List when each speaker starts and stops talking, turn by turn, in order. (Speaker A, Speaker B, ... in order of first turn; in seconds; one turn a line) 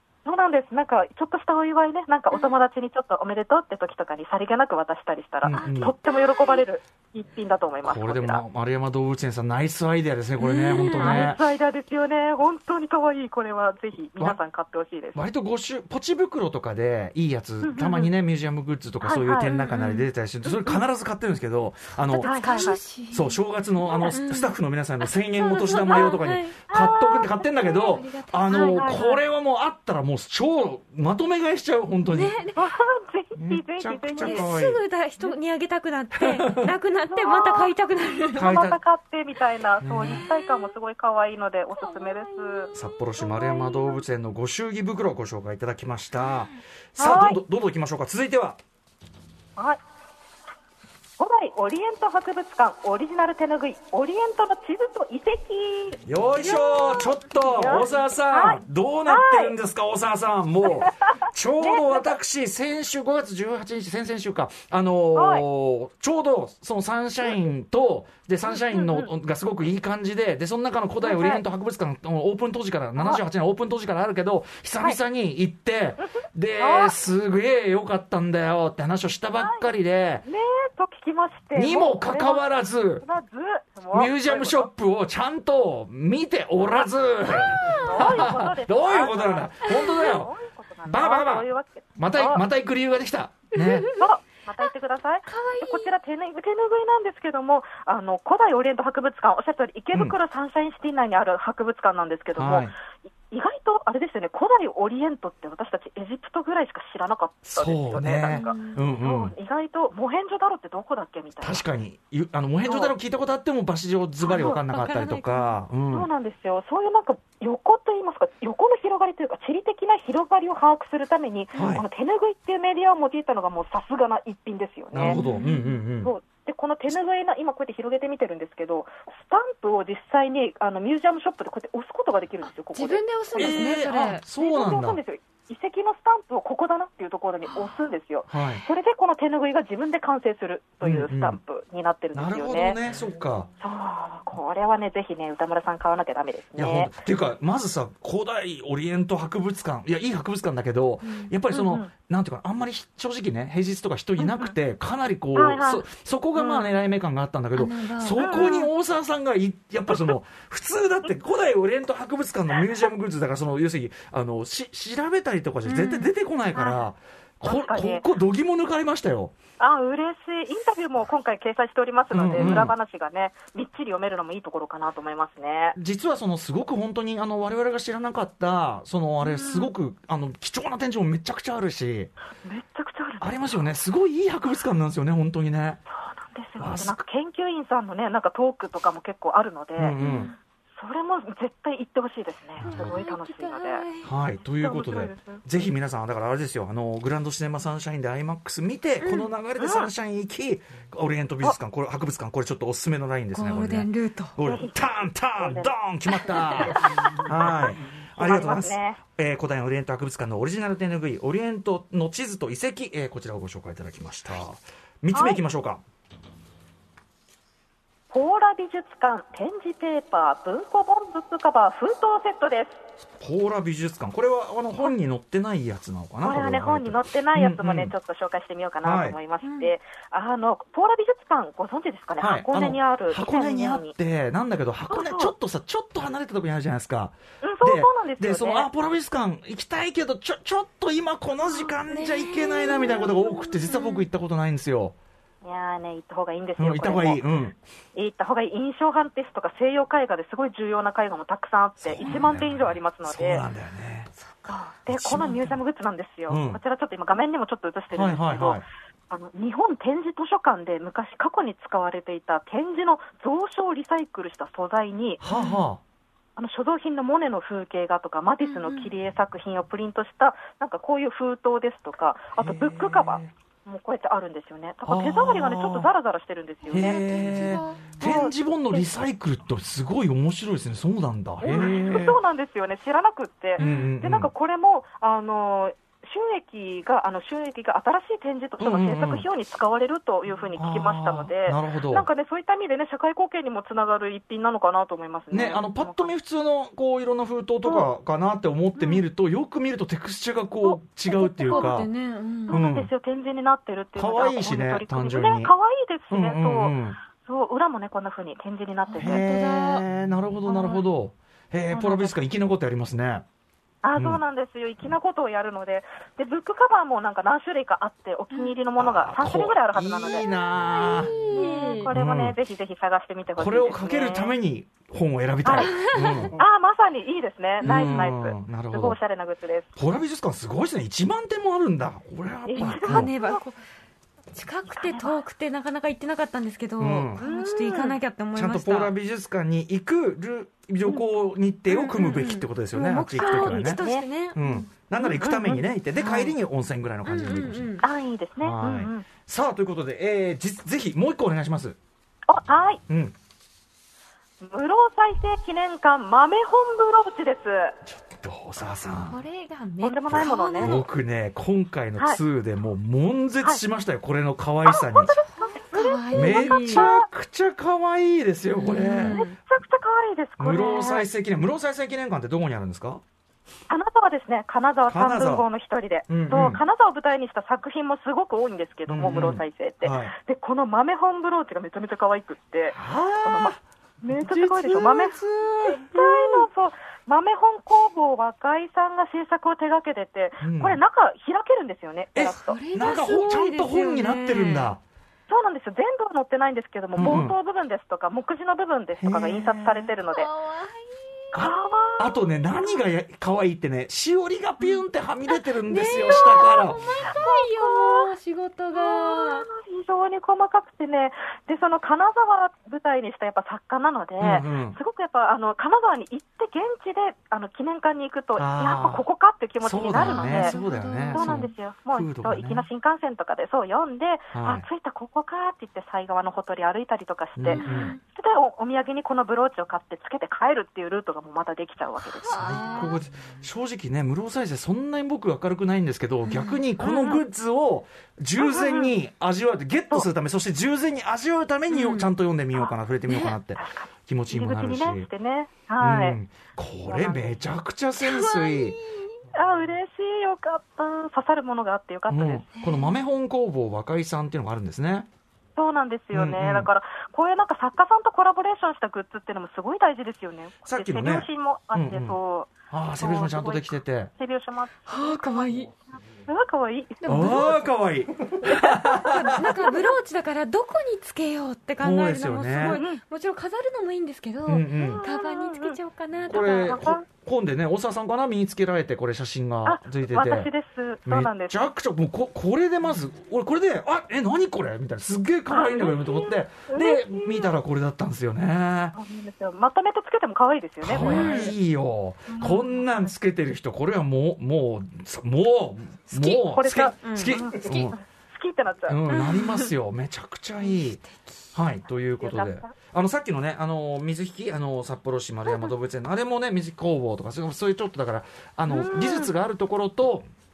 Speaker A: 0.2-8.4
Speaker B: 5.4-6.0
Speaker C: 5.5-6.6
Speaker B: 7.8-11.4
Speaker C: 10.4-11.3
Speaker A: 10.8-15.3
Speaker B: 15.2-32.4
Speaker A: 17.6-18.1
Speaker A: 19.0-19.6
Speaker C: 19.5-20.1
Speaker A: 20.4-20.8
Speaker C: 22.1-23.4
Speaker A: 22.2-22.8
Speaker A: 23.9-24.2
Speaker C: 24.1-26.6
Speaker A: 26.7-27.5
Speaker C: 27.6-29.1
Speaker A: 28.5-29.2
Speaker C: 32.1-32.6
Speaker A: 32.6-34.6
Speaker B: 33.4-34.8
Speaker C: 34.2-38.6
Speaker B: 36.2-36.7
Speaker A: 37.1-37.7
Speaker B: 38.3-38.8
Speaker A: 38.3-42.7
Speaker B: 39.8-40.2
Speaker C: 40.0-40.8
Speaker C: 41.7-44.0
Speaker B: 42.7-48.6
Speaker C: 46.2-46.5
Speaker A: 47.0-47.4
Speaker A: 51.2-59.6
Speaker B: 56.1-80.2
Speaker A: 61.6-62.1
Speaker A: 65.1-65.5
Speaker A: 68.5-69.1
Speaker A: 71.0-71.4
Speaker A: 73.0-73.2
Speaker A: 76.0-77.0
Speaker A: 79.3-79.7
Speaker A: 80.2-82.5
Speaker B: 81.5-83.0
Speaker A: 83.0-84.7
Speaker B: 83.9-90.3
Speaker A: 86.6-86.9
Speaker C: 87.4-88.3
Speaker A: 87.7-92.4
Speaker C: 89.7-90.2
Speaker B: 90.8-93.9
Speaker C: 93.5-94.1
Speaker A: 94.0-111.6
Speaker C: 95.3-95.9
Speaker B: 102.3-102.8
Speaker B: 107.5-109.3
Speaker C: 108.3-108.8
Speaker B: 111.4-116.1
Speaker A: 112.6-113.0
Speaker A: 114.2-114.6
Speaker C: 114.3-115.6
Speaker A: 115.9-125.2
Speaker B: 121.5-121.8
Speaker B: 124.9-126.1
Speaker C: 125.0-125.8
Speaker A: 126.0-142.8
Speaker C: 132.7-134.2
Speaker B: 133.4-135.0
Speaker B: 138.3-138.6
Speaker B: 140.8-141.4
Speaker B: 142.1-143.5
Speaker A: 143.6-146.9
Speaker B: 146.6-169.4
Speaker C: 151.0-151.3
Speaker A: 151.5-151.9
Speaker A: 154.2-154.6
Speaker A: 155.3-156.7
Speaker C: 157.6-158.6
Speaker A: 158.2-158.7
Speaker A: 159.9-160.2
Speaker C: 165.6-166.1
Speaker A: 166.5-166.9
Speaker A: 167.4-168.1
Speaker A: 169.6-175.8
Speaker B: 172.1-172.8
Speaker C: 172.4-172.7
Speaker B: 175.8-182.1
Speaker A: 179.2-179.7
Speaker A: 182.4-183.7
Speaker B: 183.2-185.8
Speaker A: 185.9-190.0
Speaker B: 186.6-187.0
Speaker B: 189.8-190.3
Speaker C: 190.0-190.3
Speaker A: 190.8-193.8
Speaker B: 192.6-193.0
Speaker C: 192.6-194.1
Speaker B: 194.0-215.8
Speaker A: 194.6-195.4
Speaker C: 199.0-199.3
Speaker A: 199.6-199.9
Speaker C: 203.3-204.3
Speaker A: 204.4-207.6
Speaker A: 208.2-209.0
Speaker A: 215.1-215.4
Speaker A: 218.1-222.8
Speaker B: 223.2-227.9
Speaker A: 226.2-233.9
Speaker B: 228.8-229.2
Speaker C: 229.4-229.7
Speaker B: 232.2-245.0
Speaker A: 234.9-235.3
Speaker A: 237.4-238.7
Speaker C: 241.9-244.1
Speaker A: 245.4-247.3
Speaker B: 246.6-247.6
Speaker A: 247.9-253.4
Speaker B: 251.8-254.1
Speaker C: 254.2-254.7
Speaker A: 254.5-265.2
Speaker B: 254.9-255.6
Speaker B: 256.3-256.6
Speaker B: 257.9-258.6
Speaker B: 265.2-265.8
Speaker C: 265.3-265.7
Speaker A: 266.4-277.0
Speaker C: 268.4-268.9
Speaker B: 272.4-273.3
Speaker B: 274.9-275.9
Speaker C: 276.7-277.8
Speaker B: 276.7-282.2
Speaker A: 278.0-279.1
Speaker A: 281.4-296.1
Speaker B: 283.6-284.3
Speaker C: 283.6-283.9
Speaker B: 288.6-289.3
Speaker B: 290.6-292.1
Speaker B: 295.3-301.9
Speaker A: 297.6-297.9
Speaker A: 298.8-299.0
Speaker C: 301.1-302.6
Speaker A: 301.4-301.7
Speaker A: 302.5-309.2
Speaker B: 302.5-302.9
Speaker B: 304.0-305.5
Speaker B: 306.1-307.0
Speaker C: 308.9-309.8
Speaker B: 309.0-313.2
Speaker C: 310.5-310.9
Speaker A: 311.7-312.1
Speaker A: 313.8-320.3
Speaker B: 313.9-314.2
Speaker B: 318.8-321.1
Speaker C: 320.8-321.9
Speaker A: 321.2-324.3
Speaker B: 321.9-322.4
Speaker B: 323.4-326.4
Speaker A: 325.4-325.8
Speaker C: 325.5-326.4
Speaker A: 326.4-329.7
Speaker C: 327.6-328.1
Speaker B: 327.6-329.0
Speaker B: 329.8-333.1
Speaker A: 332.5-333.4
Speaker C: 332.6-333.6
Speaker C: 334.3-338.9
Speaker A: 334.7-335.2
Speaker B: 336.8-337.2
Speaker A: 337.2-338.0
Speaker B: 338.3-343.8
Speaker C: 341.7-344.6
Speaker A: 343.2-346.3
Speaker B: 344.3-347.7
Speaker C: 347.1-347.9
Speaker A: 347.8-349.1
Speaker B: 348.4-351.8
Speaker A: 352.3-352.8
Speaker B: 352.9-353.1
Speaker A: 354.4-357.8
Speaker B: 357.9-359.2
Speaker C: 359.0-360.9
Speaker A: 359.8-360.8
Speaker B: 360.1-365.2
Speaker A: 364.7-367.1
Speaker C: 365.7-366.9
Speaker B: 366.1-369.2
Speaker C: 368.6-369.4
Speaker A: 369.0-371.1
Speaker B: 370.4-373.0
Speaker A: 373.7-385.2
Speaker B: 374.9-375.5
Speaker B: 376.1-376.6
Speaker B: 378.9-380.1
Speaker B: 382.7-383.6
Speaker B: 384.1-386.4
Speaker A: 385.8-392.6
Speaker B: 390.4-390.8
Speaker B: 392.1-394.8
Speaker C: 392.4-394.8
Speaker A: 395.3-400.3
Speaker C: 397.0-397.3
Speaker B: 397.0-397.4
Speaker B: 399.0-399.8
Speaker C: 399.9-401.5
Speaker A: 401.3-402.8
Speaker B: 401.3-407.0
Speaker C: 404.6-409.5
Speaker A: 407.1-408.1
Speaker A: 408.7-420.6
Speaker B: 414.2-414.8
Speaker B: 418.4-419.0
Speaker B: 419.6-422.7
Speaker C: 420.0-421.5
Speaker A: 421.1-432.8
Speaker B: 424.3-424.7
Speaker B: 427.4-427.9
Speaker C: 427.5-428.0
Speaker C: 432.0-433.0
Speaker B: 432.4-445.1
Speaker C: 436.2-437.2
Speaker A: 438.4-439.0
Speaker C: 441.7-442.1
Speaker C: 443.1-443.4
Speaker A: 443.5-446.2
Speaker B: 445.8-448.8
Speaker A: 446.9-447.4
Speaker C: 448.0-449.1
Speaker A: 449.3-452.5
Speaker B: 452.1-455.1
Speaker C: 452.6-453.0
Speaker A: 455.6-465.7
Speaker B: 456.1-456.7
Speaker B: 460.6-462.2
Speaker B: 462.7-464.1
Speaker C: 464.9-465.7
Speaker A: 466.3-467.6
Speaker C: 467.0-467.6
Speaker B: 467.1-469.6
Speaker A: 468.4-469.2
Speaker C: 469.0-476.8
Speaker B: 471.8-472.8
Speaker A: 472.6-473.0
Speaker B: 474.5-475.0
Speaker A: 474.8-475.8
Speaker B: 476.3-480.5
Speaker A: 476.3-477.1
Speaker A: 479.6-481.6
Speaker B: 481.1-489.0
Speaker A: 485.5-487.5
Speaker A: 488.9-491.5
Speaker B: 490.8-497.9
Speaker C: 491.0-491.6
Speaker A: 492.3-493.1
Speaker A: 496.1-499.0
Speaker C: 497.0-497.4
Speaker B: 498.9-501.0
Speaker C: 499.1-499.7
Speaker C: 500.6-501.1
Speaker B: 501.5-510.3
Speaker A: 502.2-502.7
Speaker A: 508.7-509.3